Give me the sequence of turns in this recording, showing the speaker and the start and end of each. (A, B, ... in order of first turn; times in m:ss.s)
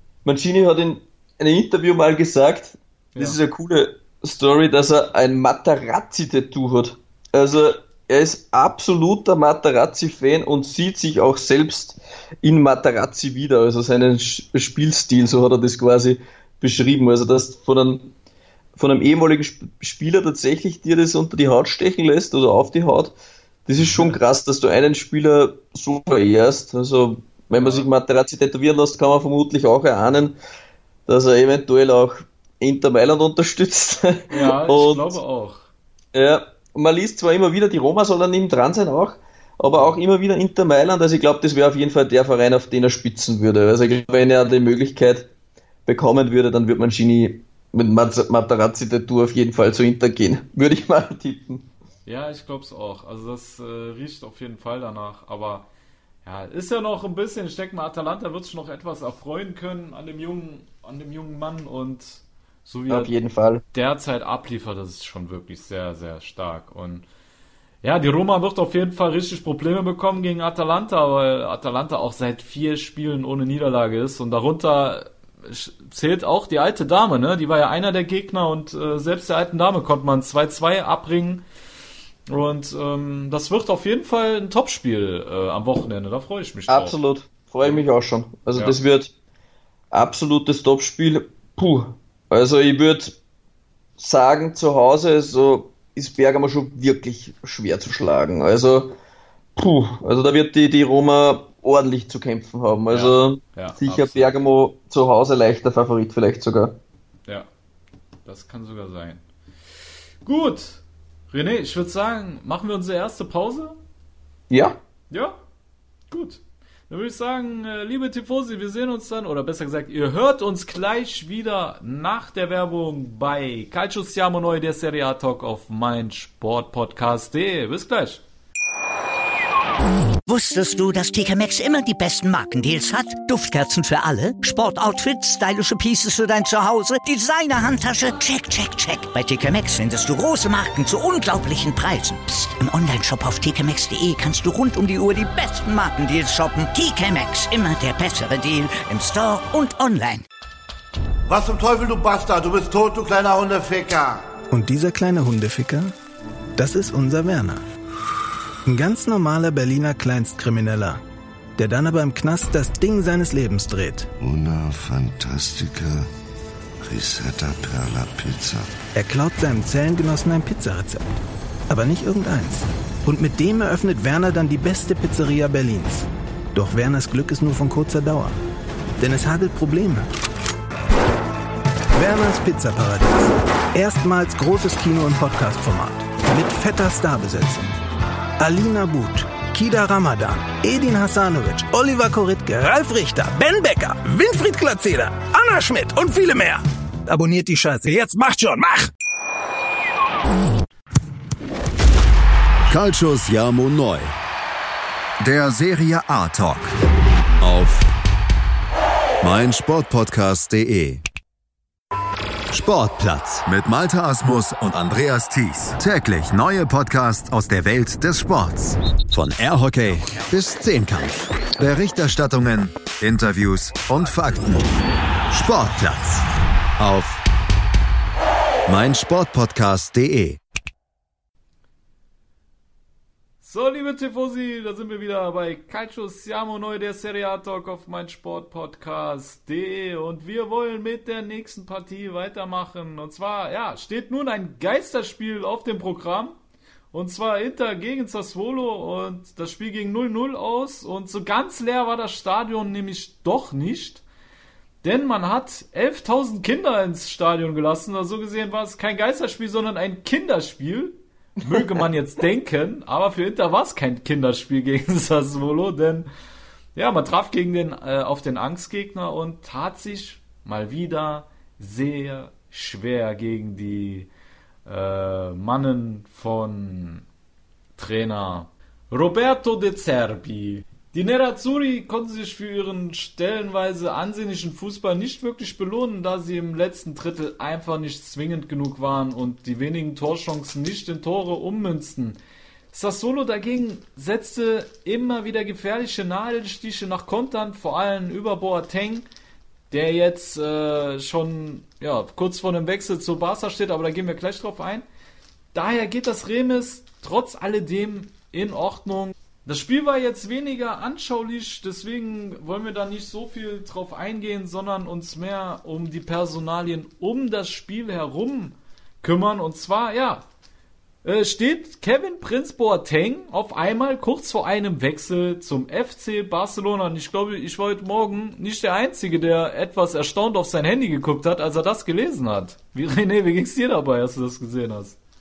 0:00.2-0:18.1 A
0:18.8-0:23.1 A
0:23.7-0:30.4 A
0:23.8-0:24.2 B
0:27.6-0:27.9 B
0:31.1-0:35.2 A
0:34.3-0:35.7 B
0:36.1-0:45.3 A
0:39.7-0:40.0 B
0:45.9-0:51.7 A
0:52.1-0:55.7 B
0:56.2-1:03.1 B
1:02.9-1:03.6 A
1:03.7-1:07.0 B
1:07.8-1:21.4 B
1:22.3-1:27.0 B
1:26.7-1:29.1 A
1:29.9-1:33.2 A
1:34.0-1:39.0 A
1:39.6-1:46.8 A
1:42.9-1:44.3 B
1:48.3-1:49.2 B
1:50.2-1:53.8 B
1:54.5-1:54.8 A
1:55.1-1:55.4 B
1:56.1-2:08.2 B
2:10.3-2:30.2 C
2:31.3-2:34.3 D
2:34.5-2:35.9 E
2:36.6-2:37.6 E
2:38.7-2:41.0 E
2:41.6-2:44.1 E
2:44.2-2:46.1 F
2:46.8-2:48.7 F
2:49.0-2:51.0 E
2:51.7-2:58.4 E
2:59.0-3:00.0 E
3:01.9-3:07.7 E
3:08.4-3:18.9 E
3:22.7-3:24.1 G
3:25.2-3:26.7 G
3:27.4-3:27.9 G
3:29.2-3:31.0 G
3:32.5-3:44.7 G
3:45.3-3:46.3 G
3:46.8-3:47.2 G
3:48.7-3:50.4 G
3:53.4-4:06.4 B
4:06.9-4:14.0 B
4:14.8-4:26.1 B
4:21.5-4:21.8 A
4:26.8-4:34.1 B
4:34.7-4:37.0 B
4:37.8-4:52.2 B
4:52.7-4:59.1 B
4:59.7-5:04.8 B
5:05.5-5:20.2 B
5:21.0-5:35.0 B